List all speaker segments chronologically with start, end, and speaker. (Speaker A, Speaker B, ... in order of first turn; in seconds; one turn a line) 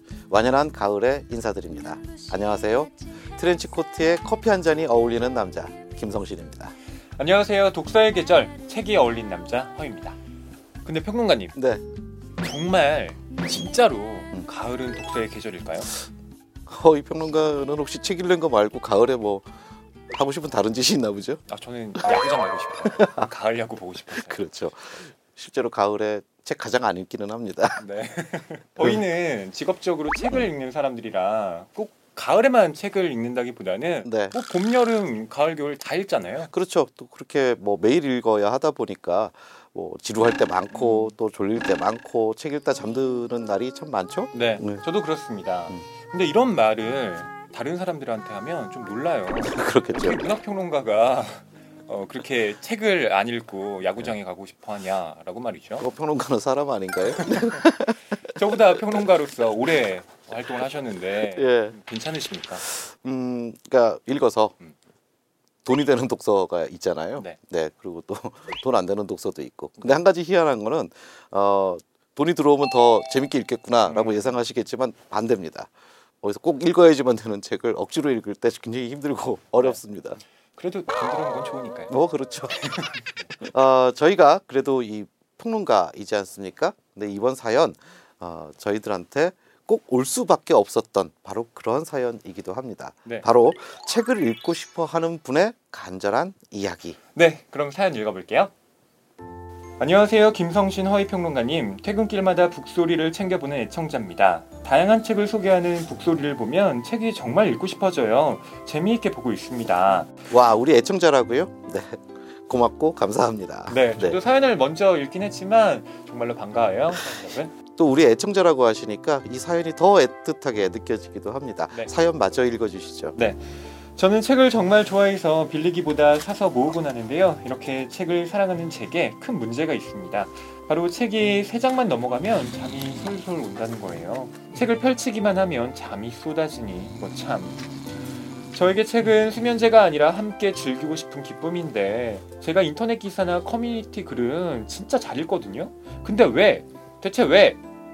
Speaker A: 0.3-6.7
Speaker B: 7.2-10.2
Speaker B: 10.8-11.6
Speaker A: 11.5-11.8
Speaker B: 12.4-15.9
Speaker A: 16.7-19.5
Speaker A: 20.1-21.4
Speaker B: 21.5-25.0
Speaker A: 22.8-23.3
Speaker A: 24.1-27.8
Speaker B: 27.8-36.5
Speaker A: 34.0-34.4
Speaker A: 36.5-44.8
Speaker B: 40.7-41.1
Speaker B: 44.3-55.9
Speaker A: 49.4-50.2
Speaker A: 55.8-58.6
Speaker B: 57.1-62.6
Speaker A: 61.2-61.8
Speaker A: 62.6-64.5
Speaker A: 65.6-75.7
Speaker B: 73.8-74.4
Speaker A: 76.2-80.2
Speaker B: 79.5-79.8
Speaker B: 80.5-82.0
Speaker A: 81.9-82.6
Speaker B: 82.5-83.4
Speaker A: 83.4-97.0
Speaker B: 97.1-98.5
Speaker B: 99.8-110.1
Speaker A: 110.3-114.2
Speaker B: 113.7-117.5
Speaker A: 116.9-123.2
Speaker B: 123.1-137.6
Speaker B: 138.5-147.6